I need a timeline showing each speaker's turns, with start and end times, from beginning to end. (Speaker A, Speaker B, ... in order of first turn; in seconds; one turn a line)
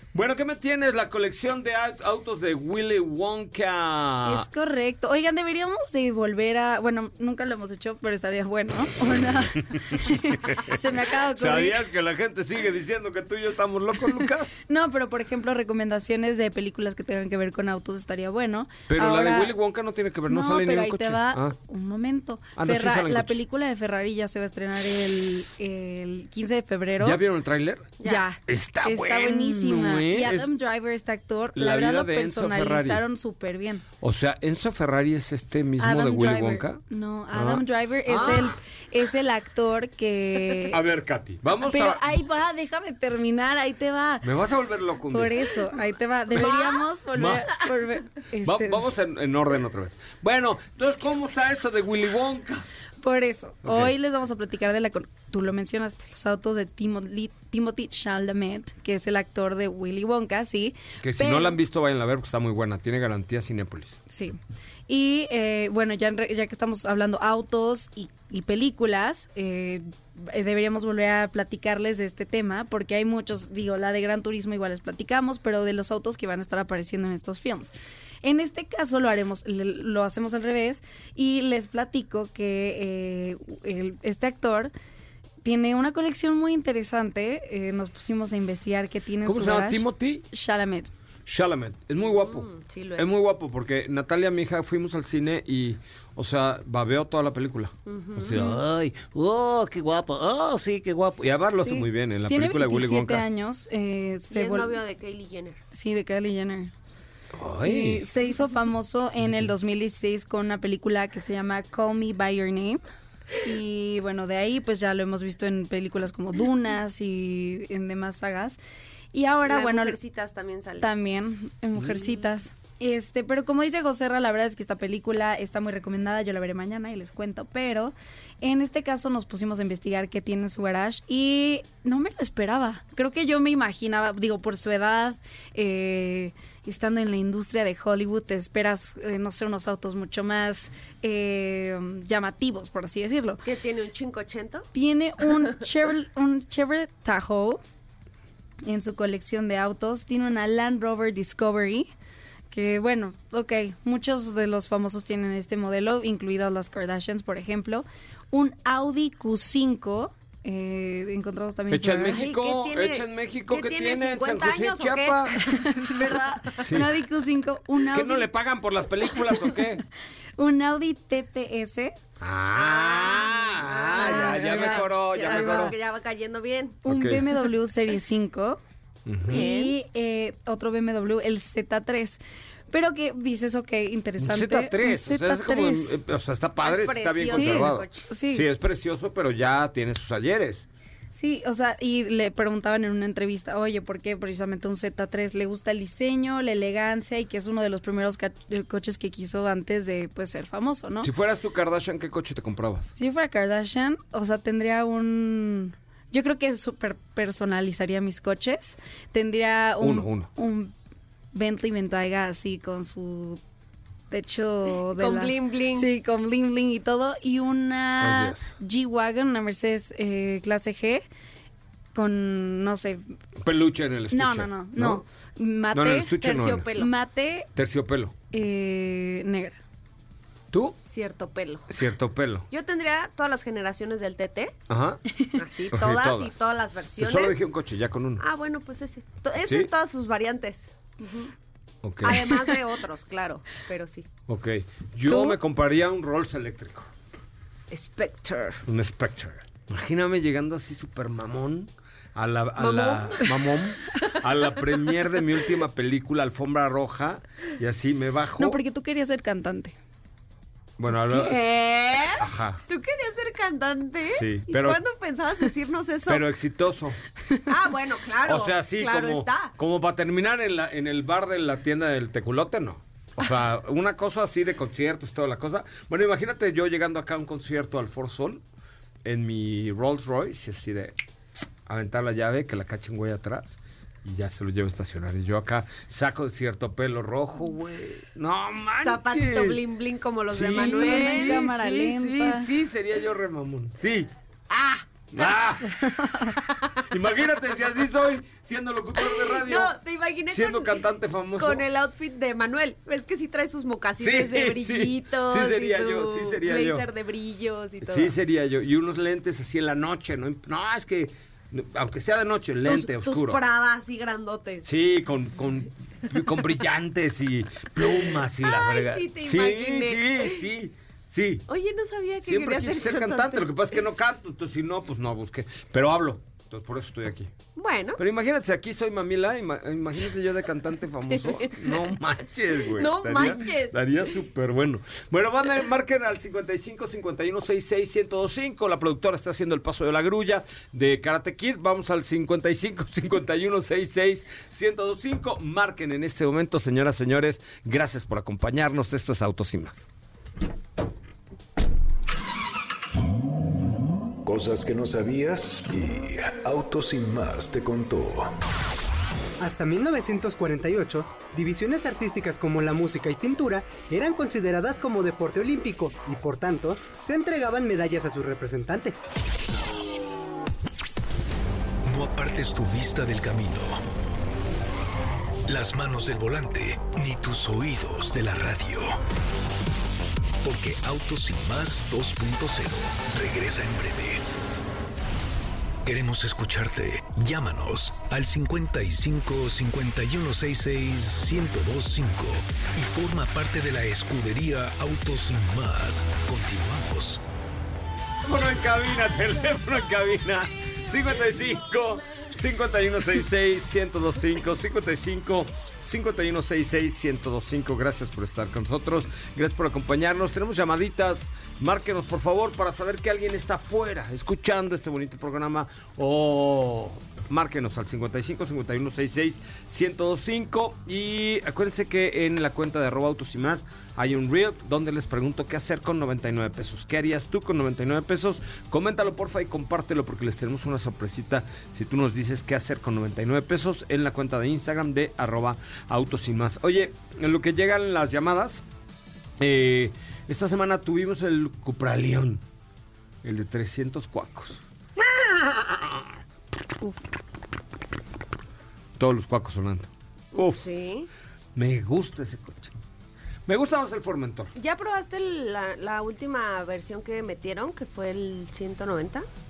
Speaker A: 0.1-4.5
Speaker B: 4.3-11.9
Speaker A: 10.4-14.5
Speaker B: 14.7-19.5
Speaker A: 18.9-21.6
Speaker B: 20.3-27.2
Speaker A: 22.6-23.4
Speaker A: 27.0-27.9
Speaker B: 28.0-33.8
Speaker A: 28.5-30.5
Speaker A: 31.6-33.0
Speaker A: 34.0-36.8
Speaker B: 35.8-40.8
Speaker A: 37.3-38.6
Speaker A: 40.7-42.1
Speaker B: 41.6-44.3
Speaker A: 44.2-45.5
Speaker B: 45.1-48.8
Speaker A: 46.3-46.6
Speaker C: 46.5-46.8
Speaker A: 47.1-47.6
Speaker A: 48.4-52.7
Speaker B: 53.0-61.5
Speaker A: 53.6-53.9
Speaker A: 61.0-64.0
Speaker B: 64.1-84.7
Speaker B: 85.4-90.9
Speaker A: 89.2-90.2
Speaker A: 91.3-103.2
Speaker C: 92.2-93.2
Speaker C: 97.9-98.5
Speaker B: 101.6-104.8
Speaker C: 104.3-105.6
Speaker B: 105.7-106.7
Speaker A: 107.3-108.0
Speaker B: 107.6-112.8
Speaker B: 113.4-118.6
Speaker B: 119.1-120.0
Speaker C: 119.5-120.9
Speaker B: 120.8-143.4
Speaker C: 143.4-144.7
Speaker B: 144.7-147.6
Speaker B: 148.6-151.9
Speaker B: 152.5-162.2
Speaker A: 161.7-165.4
Speaker C: 162.1-165.5
Speaker B: 165.4-168.3
Speaker A: 166.6-166.9
Speaker A: 167.9-169.8
Speaker B: 170.4-171.9
Speaker A: 172.2-175.7
Speaker C: 172.6-176.8
Speaker B: 173.9-175.7
Speaker B: 176.8-178.6
Speaker A: 176.9-177.2
Speaker A: 179.1-179.4
Speaker B: 179.3-182.2
Speaker C: 179.3-179.7
Speaker B: 182.7-186.0
Speaker A: 184.2-190.7
Speaker C: 186.6-188.1
Speaker B: 187.3-188.5
Speaker B: 191.1-201.1
Speaker A: 201.0-202.9
Speaker B: 203.0-210.7
Speaker A: 209.8-210.3
Speaker B: 211.3-213.4
Speaker B: 214.1-221.1
Speaker C: 214.9-215.9
Speaker A: 218.0-218.5
Speaker B: 221.9-223.0
Speaker A: 223.4-225.0
Speaker B: 224.1-226.2
Speaker A: 225.7-226.7
Speaker C: 226.2-226.9
Speaker B: 226.7-227.5
Speaker A: 227.6-228.1
Speaker B: 228.3-229.6
Speaker A: 230.5-230.8
Speaker C: 230.9-231.8
Speaker A: 231.7-232.5
Speaker C: 232.5-234.6
Speaker A: 234.7-235.0
Speaker C: 235.4-237.4
Speaker A: 235.7-236.4
Speaker A: 237.0-238.2
Speaker C: 238.2-241.3
Speaker A: 239.4-239.7
Speaker A: 241.8-242.5
Speaker C: 242.0-244.1
Speaker A: 244.3-246.9
Speaker B: 245.1-245.4
Speaker C: 247.7-248.6
Speaker A: 248.7-258.6
Speaker C: 252.6-253.3
Speaker B: 258.4-259.7
Speaker A: 260.8-261.4
Speaker C: 261.0-266.2
Speaker A: 262.2-262.6
Speaker A: 264.1-264.8
Speaker A: 266.1-267.0
Speaker C: 267.5-269.5
Speaker A: 268.2-278.4
Speaker A: 279.1-280.9
Speaker A: 281.7-289.6
Speaker C: 288.8-291.4
Speaker A: 290.3-294.1
Speaker B: 290.5-292.5
Speaker C: 294.5-294.9
Speaker A: 295.1-295.9
Speaker C: 296.5-296.8
Speaker A: 296.9-299.7
Speaker C: 299.0-308.1
Speaker A: 300.3-301.6
Speaker A: 304.0-306.9
Speaker A: 307.8-313.4
Speaker C: 312.7-314.7
Speaker A: 314.6-321.4
Speaker C: 318.4-320.4
Speaker C: 321.5-323.8
Speaker A: 322.2-327.3
Speaker C: 327.6-328.0
Speaker A: 328.0-349.9
Speaker C: 331.1-331.9
Speaker C: 332.6-333.8
Speaker D: 354.2-358.3
Speaker E: 359.4-369.1
Speaker D: 371.9-373.8
Speaker D: 375.5-379.0
Speaker D: 380.4-384.2
Speaker D: 385.8-397.2
Speaker A: 398.2-438.6
Speaker A: 439.4-442.4
Speaker A: 443.2-446.2
Speaker B: 446.8-447.1
Speaker A: 449.0-450.6
Speaker C: 450.4-451.1
Speaker A: 451.6-452.7
Speaker A: 453.5-454.5
Speaker C: 454.6-459.3